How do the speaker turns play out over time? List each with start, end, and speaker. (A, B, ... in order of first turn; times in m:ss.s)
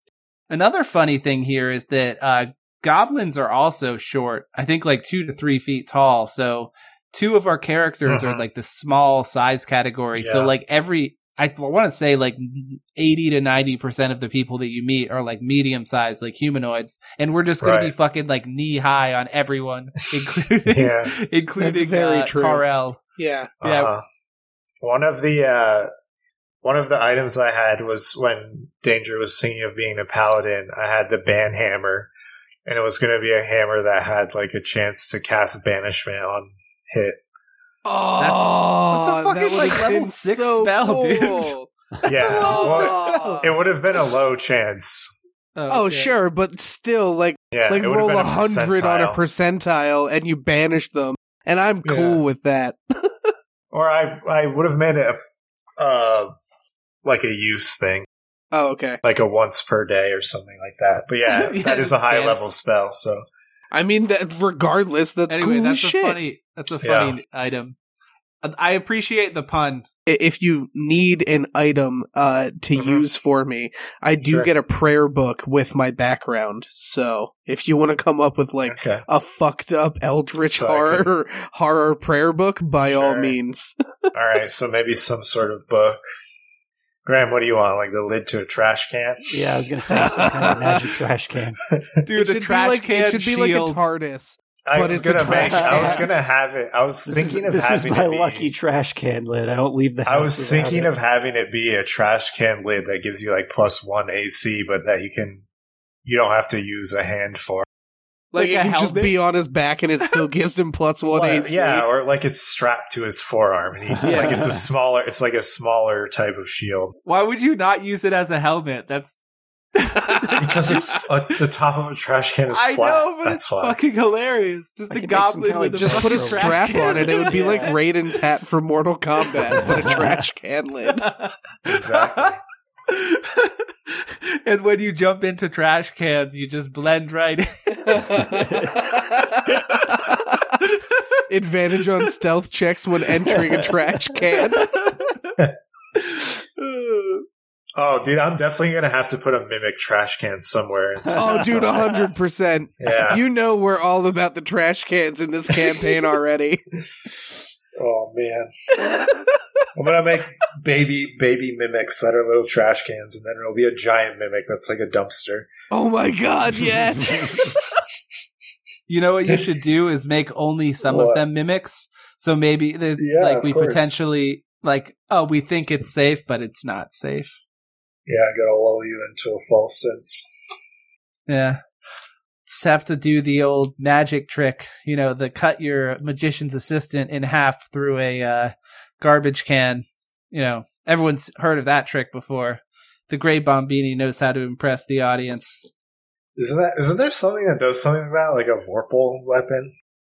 0:00.5-0:23.0 A
0:08.1-0:08.4 B
0:10.2-0:10.5 B
0:17.6-0:17.9 B
0:20.6-0:21.1 B
0:21.6-0:22.6 C
0:23.2-0:23.5 C
0:23.6-0:23.9 A
0:23.6-0:24.0 B
0:24.8-0:25.9 B
0:26.6-0:32.1 B
0:32.6-0:37.2 B
0:37.8-0:41.7 C
0:38.2-0:41.5 A
0:42.0-0:45.1 B
0:42.1-0:43.5 A
0:42.2-0:43.5 C
0:45.6-0:46.1 A
0:45.7-0:53.3 C
0:47.5-0:49.2 B
0:51.8-0:52.2 B
0:53.7-0:55.2 B
0:55.8-0:56.3 B
0:57.0-0:58.0 B
0:58.5-0:59.0 C
0:59.0-1:03.2 B
1:01.3-1:02.4 A
1:03.7-1:06.2 C
1:05.3-1:07.8 A
1:06.8-1:07.2 B
1:08.4-1:09.9 A
1:10.1-1:23.7 C
1:12.8-1:13.0 B
1:14.2-1:14.5 B
1:18.6-1:19.0 B
1:20.4-1:21.1 B
1:22.8-1:23.4 B
1:24.1-1:26.0 B
1:27.0-1:29.3 B
1:29.3-1:31.6 D
1:29.9-1:30.8 C
1:31.7-1:32.0 B
1:32.0-1:33.8 A
1:32.1-1:36.0 C
1:34.6-1:38.5 B
1:35.2-1:36.0 D
1:37.0-1:40.9 D
1:40.0-1:45.4 B
1:46.0-1:47.6 B
1:48.3-1:51.8 C
1:48.3-1:49.2 A
1:51.1-1:56.9 B
1:53.9-1:54.6 D
1:54.0-1:54.4 C
1:57.0-1:59.2 A
1:59.7-2:00.7 A
2:00.1-2:00.8 C
2:00.4-2:03.8 B
2:02.5-2:07.8 A
2:04.9-2:07.7 D
2:05.8-2:11.1 C
2:09.6-2:10.1 D
2:11.0-2:12.3 A
2:11.6-2:12.4 B
2:12.9-2:18.3 A
2:17.9-2:20.4 C
2:19.8-2:21.2 A
2:21.3-2:24.7 C
2:24.5-2:25.4 A
2:26.0-2:27.2 A
2:27.8-2:31.9 B
2:31.0-2:31.8 D
2:31.1-2:36.6 C
2:32.8-2:33.2 B
2:37.8-2:38.5 B
2:39.7-2:45.5 B
2:45.7-2:47.6 C
2:48.9-2:57.3 A
2:50.9-2:51.2 B
2:53.0-2:54.0 B
2:58.0-3:00.3 B
3:01.3-3:01.6 A
3:02.4-3:15.6 A
3:16.4-3:19.7 B